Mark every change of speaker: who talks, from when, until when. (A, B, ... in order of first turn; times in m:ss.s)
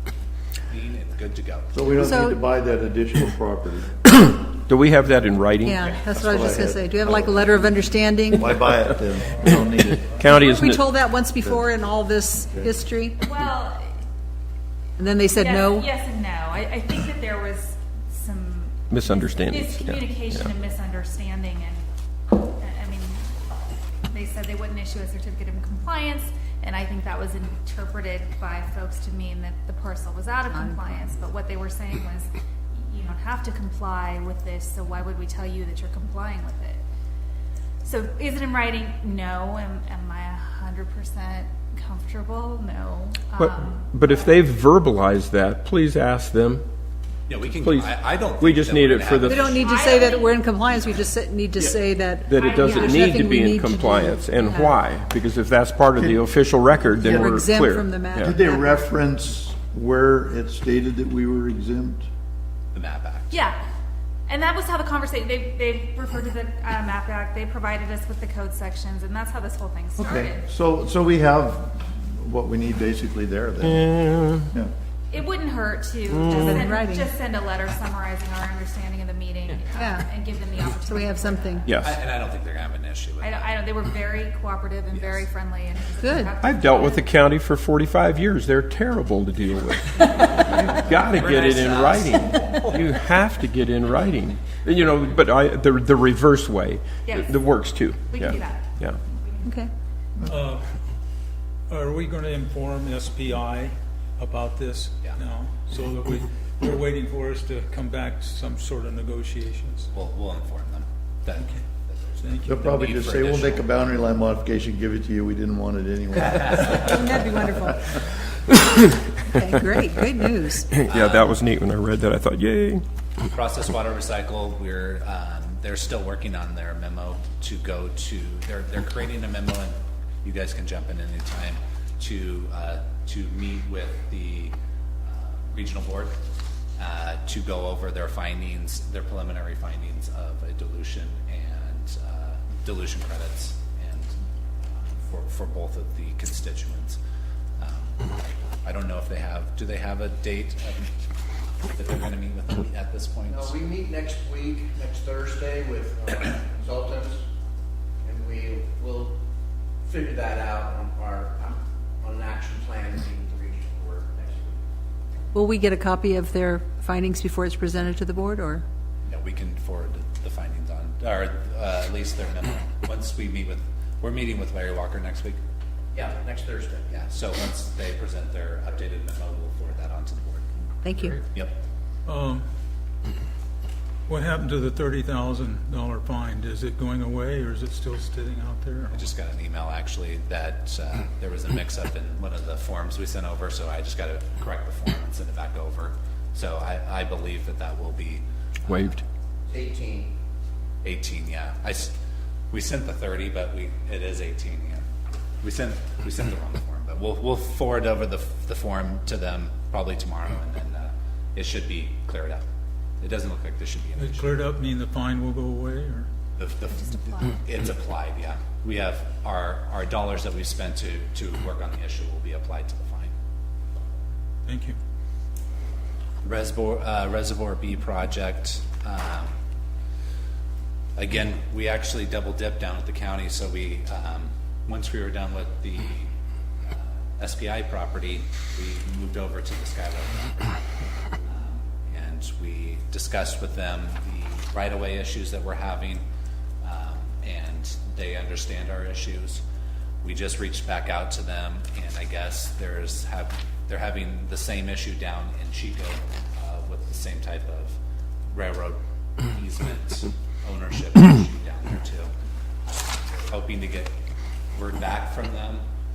0:00.7-0:02.0 A
0:01.7-0:04.0 B
0:02.0-0:02.4 C
0:04.1-0:05.8 D
0:05.6-0:08.6 C
0:05.9-0:07.6 B
0:08.3-0:10.2 B
0:10.1-0:10.9 D
0:10.3-0:13.2 C
0:11.4-0:11.7 B
0:13.2-0:13.8 E
0:15.0-0:15.9 C
0:15.3-0:23.3 E
0:18.9-0:20.5 D
0:24.1-0:36.8 E
0:30.5-0:31.1 C
0:37.8-0:44.0 E
0:43.4-0:46.6 D
0:47.3-0:49.8 A
0:47.5-0:49.5 D
0:49.2-0:54.8 C
0:49.4-0:50.9 E
0:52.3-0:58.3 D
0:52.3-0:53.3 E
0:56.9-0:58.8 C
0:58.2-1:02.0 B
1:02.7-1:03.3 A
1:03.3-1:03.6 E
1:04.3-1:10.4 E
1:10.0-1:14.7 B
1:13.6-1:14.5 D
1:15.1-1:21.7 E
1:16.1-1:16.5 D
1:16.3-1:17.1 C
1:19.8-1:20.0 C
1:20.9-1:21.7 C
1:21.7-1:22.0 D
1:21.8-1:23.5 A
1:23.2-1:27.1 E
1:24.9-1:25.2 A
1:26.0-1:26.3 C
1:26.4-1:39.0 D
1:30.2-1:32.7 A
1:37.0-1:37.4 E
1:38.0-1:39.4 E
1:39.4-1:39.7 C
1:40.3-1:40.7 F
1:41.7-1:49.9 F
1:49.9-1:53.7 A
1:51.4-1:51.6 F
1:52.2-1:52.6 F
1:52.5-1:57.0 B
1:56.3-1:56.8 A
1:56.8-1:58.0 C
1:59.2-2:00.6 C
2:00.7-2:02.8 D
2:00.8-2:01.4 A
2:03.3-2:14.5 A
2:15.2-2:16.2 A
2:16.8-2:24.1 A
2:24.8-2:27.0 A
2:27.6-2:28.1 A
2:28.6-2:30.9 A
2:31.6-2:33.5 A
2:33.3-2:37.2 G
2:38.0-2:39.2 G
2:39.8-2:44.6 G
2:45.3-2:48.6 C
2:49.0-2:55.4 A
2:55.9-2:56.9 G
2:56.9-3:01.6 A
3:00.8-3:01.2 C
3:02.0-3:02.4 F
3:04.1-3:09.1 F
3:08.9-3:19.0 A
3:18.7-3:19.0 D
3:19.5-3:20.1 G
3:20.8-3:21.9 A
3:22.5-3:24.9 A
3:25.4-3:32.4 A
3:33.0-3:34.4 A
3:34.0-3:36.1 F
3:36.4-3:43.1 A
3:44.4-3:44.8 F
3:46.2-3:49.3 A
3:51.0-3:56.1 A
3:56.7-4:00.6 A
4:01.3-4:06.0 A
4:06.6-4:09.4 A
4:10.0-4:17.8 A
4:18.3-4:22.1 A
4:23.2-4:23.9 A
4:24.5-4:25.6 A